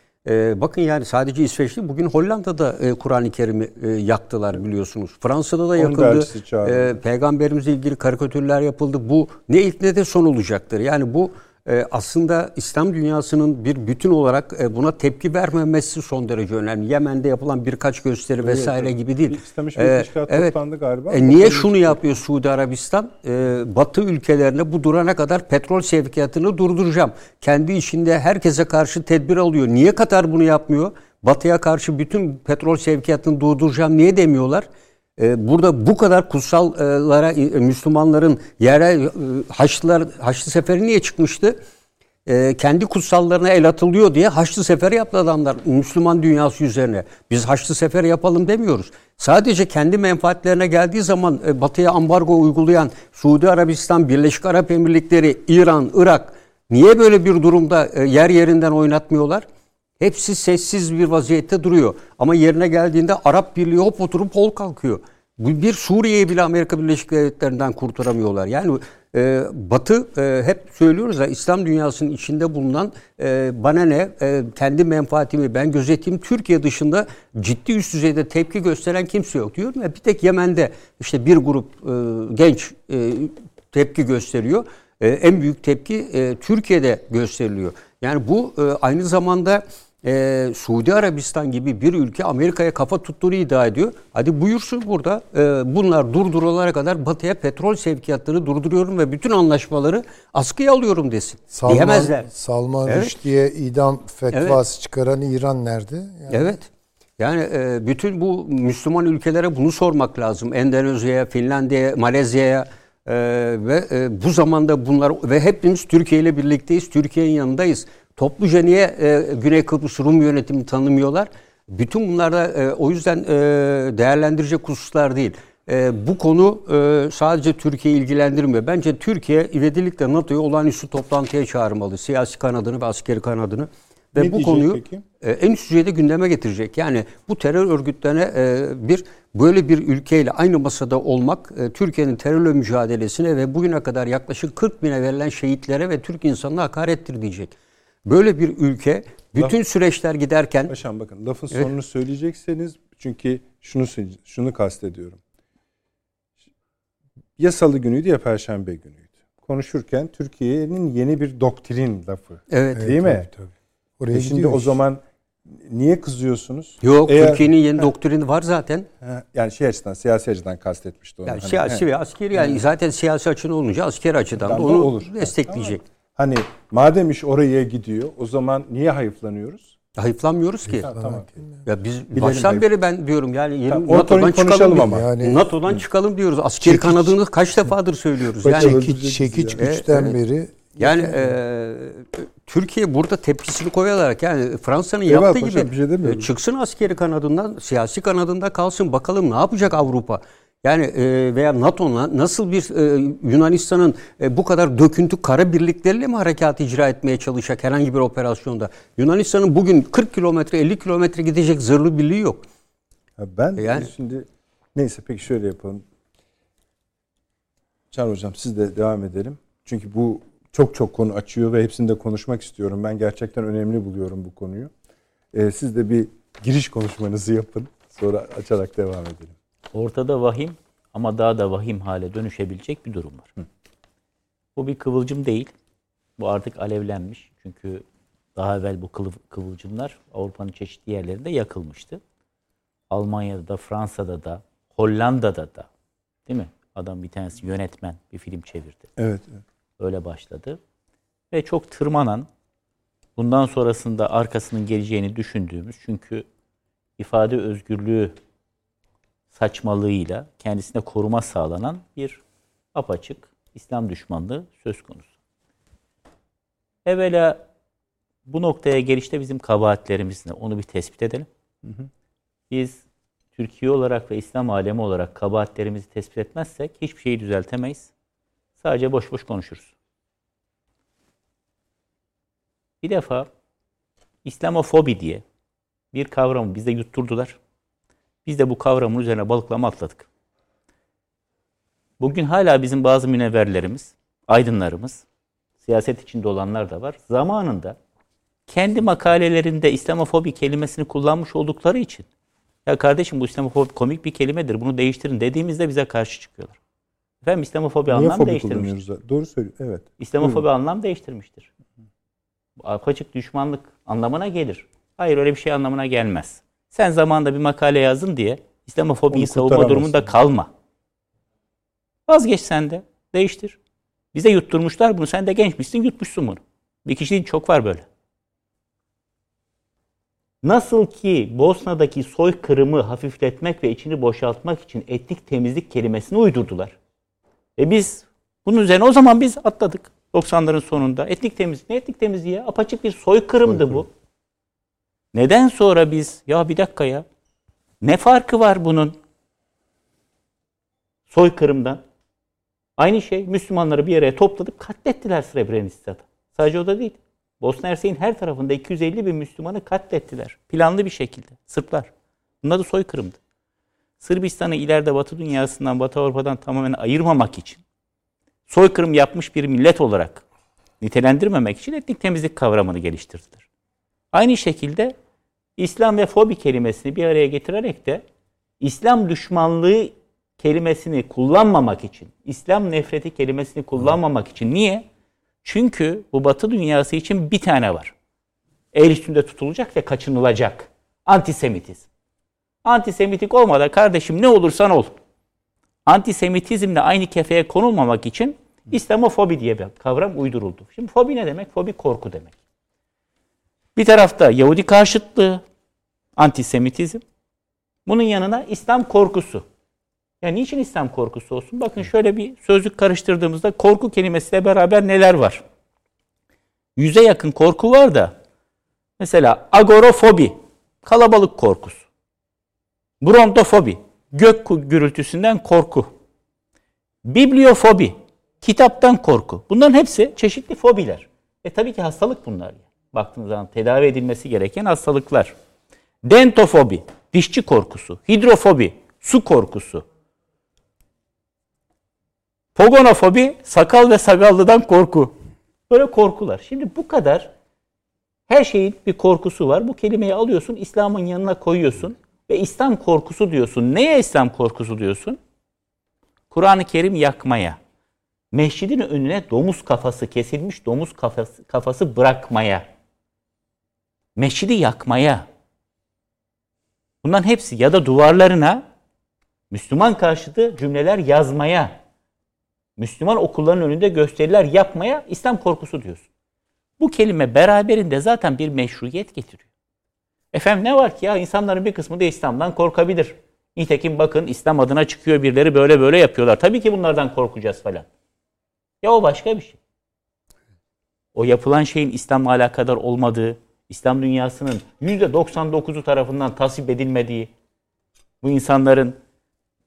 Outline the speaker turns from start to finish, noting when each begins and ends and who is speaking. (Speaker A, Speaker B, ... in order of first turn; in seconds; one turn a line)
Speaker A: 0.2-20.5
Speaker B: 5.8-7.0
Speaker B: 18.4-22.0
Speaker A: 21.1-41.6
Speaker A: 42.2-59.4
Speaker A: 60.0-102.3
Speaker C: 101.5-106.5
Speaker A: 104.3-104.6
Speaker A: 106.3-147.5
Speaker B: 134.1-135.0
Speaker A: 148.1-150.7
Speaker B: 150.7-155.2
Speaker B: 157.4-163.3
Speaker A: 162.5-162.9
Speaker C: 162.8-164.8
Speaker B: 164.1-167.9
Speaker A: 166.8-168.9
Speaker B: 169.0-172.6
Speaker A: 171.2-175.8
Speaker B: 174.4-179.8
Speaker A: 179.9-180.9
Speaker B: 180.7-181.3
Speaker C: 180.8-181.6
Speaker A: 181.6-188.9
Speaker B: 182.1-182.7
Speaker B: 183.7-185.1
Speaker C: 184.8-185.4
Speaker C: 186.6-187.1
Speaker B: 188.4-189.6
Speaker C: 188.4-191.3
Speaker A: 189.6-190.2
Speaker A: 190.8-212.4
Speaker B: 195.1-196.3
Speaker B: 213.2-215.8
Speaker A: 213.6-213.9
Speaker B: 217.9-224.7
Speaker B: 225.3-229.3
Speaker D: 229.7-233.3
Speaker D: 234.6-235.5
Speaker D: 236.2-237.8
Speaker D: 238.3-242.0
Speaker D: 242.9-245.7
Speaker D: 246.3-248.9
Speaker B: 249.0-249.4
Speaker D: 249.8-250.6
Speaker D: 251.3-252.3
Speaker D: 253.2-256.2
Speaker D: 257.0-258.1
Speaker D: 259.3-262.2
Speaker D: 262.7-265.1
Speaker D: 266.8-267.4
Speaker D: 268.2-271.3
Speaker D: 272.5-272.8
Speaker D: 273.3-277.9
Speaker D: 278.6-279.7
Speaker D: 282.8-283.3
Speaker D: 284.2-285.2
Speaker D: 285.9-287.4
Speaker D: 288.2-290.1
Speaker D: 292.0-295.0
Speaker D: 295.6-297.8
Speaker D: 298.5-302.1
Speaker D: 302.6-306.6
Speaker D: 307.2-308.8
Speaker B: 307.9-310.4
Speaker D: 310.0-311.5
Speaker D: 312.6-320.5
Speaker B: 319.1-320.1
Speaker D: 322.1-323.6
Speaker D: 324.1-327.9
Speaker D: 330.4-336.8
Speaker D: 337.6-343.9
Speaker B: 343.5-343.8
Speaker D: 345.1-347.0
Speaker D: 347.8-348.9
Speaker D: 351.1-351.8
Speaker D: 352.8-361.9
Speaker D: 362.4-363.2
Speaker D: 364.0-367.6
Speaker D: 368.5-370.2
Speaker D: 370.8-373.4
Speaker D: 374.1-374.9
Speaker D: 375.6-378.0
Speaker D: 378.6-384.8
Speaker D: 385.4-387.9
Speaker D: 388.7-391.9
Speaker D: 392.6-395.0
Speaker D: 395.9-402.3
Speaker D: 403.8-405.4
Speaker D: 406.1-407.0
Speaker D: 407.9-409.4
Speaker D: 410.2-415.4
Speaker D: 416.8-418.2
Speaker D: 419.0-421.8
Speaker D: 423.0-425.9
Speaker D: 427.0-435.3
Speaker D: 436.0-439.8
Speaker D: 442.5-445.1
Speaker D: 445.7-447.3
Speaker D: 448.3-455.2
Speaker D: 456.3-457.6
Speaker D: 458.3-462.7
Speaker D: 464.1-465.3
Speaker D: 467.0-468.6
Speaker D: 469.5-471.8
Speaker D: 472.8-476.1
Speaker D: 476.8-479.4
Speaker D: 480.3-487.9
Speaker D: 488.8-489.6
Speaker D: 491.1-497.3
Speaker D: 498.2-498.9